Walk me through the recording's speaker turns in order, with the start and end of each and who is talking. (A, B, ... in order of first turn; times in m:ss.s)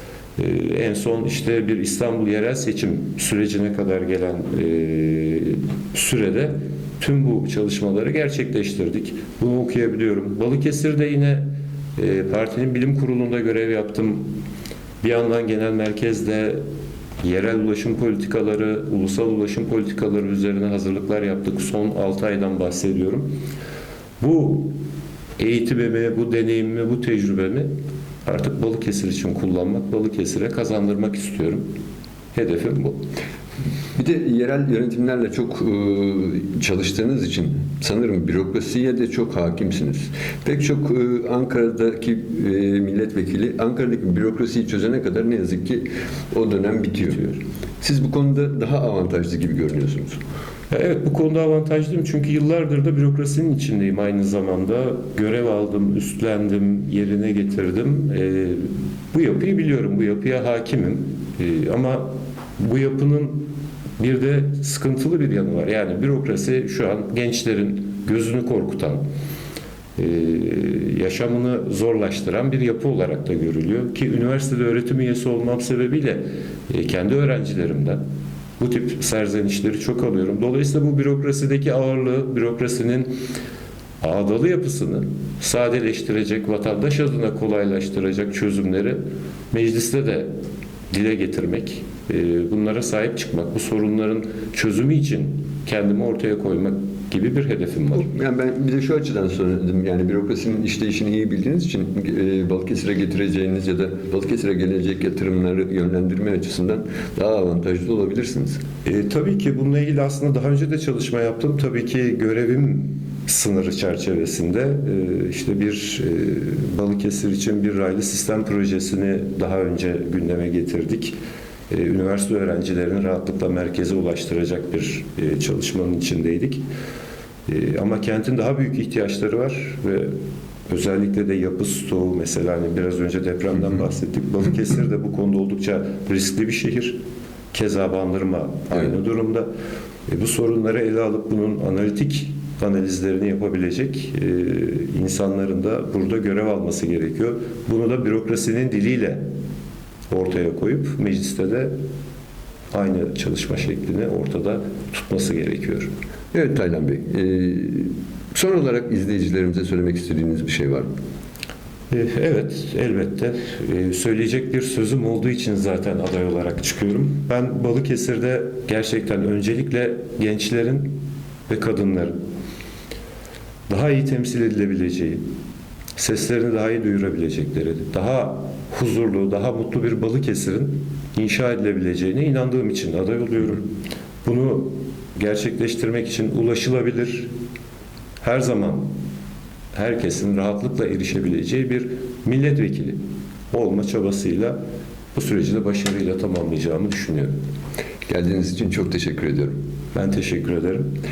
0:00.4-0:14.3 A
0:15.0-0:16.6 A
0:17.2-0:23.3 A
0:24.2-0:24.8 A
0:25.4-0:27.7 A
0:28.2-0:31.6 A
0:32.3-0:33.0 A
0:34.0-0:50.2 B
0:50.7-1:09.0 A
1:10.0-1:18.0 A
1:18.6-1:23.1 A
1:24.0-1:29.0 A
1:29.5-1:30.3 A
1:30.9-1:38.1 A
1:37.9-1:48.6 B
1:48.8-2:01.2 A
2:01.7-2:06.6 A
2:07.5-2:10.1 A
2:10.7-2:17.0 A
2:17.5-2:19.5 A
2:20.1-2:29.2 A
2:30.1-2:31.7 A
2:32.7-2:35.9 A
2:36.3-2:40.9 B
2:41.9-2:50.9 A
2:51.5-2:52.1 A
2:53.7-2:55.2 A
2:56.0-3:03.6 A
3:04.2-3:07.3 A
3:08.2-3:08.9 A
3:09.7-3:13.0 A
3:13.5-3:14.6 A
3:15.1-3:17.3 A
3:18.1-3:19.6 B
3:19.9-3:20.8 A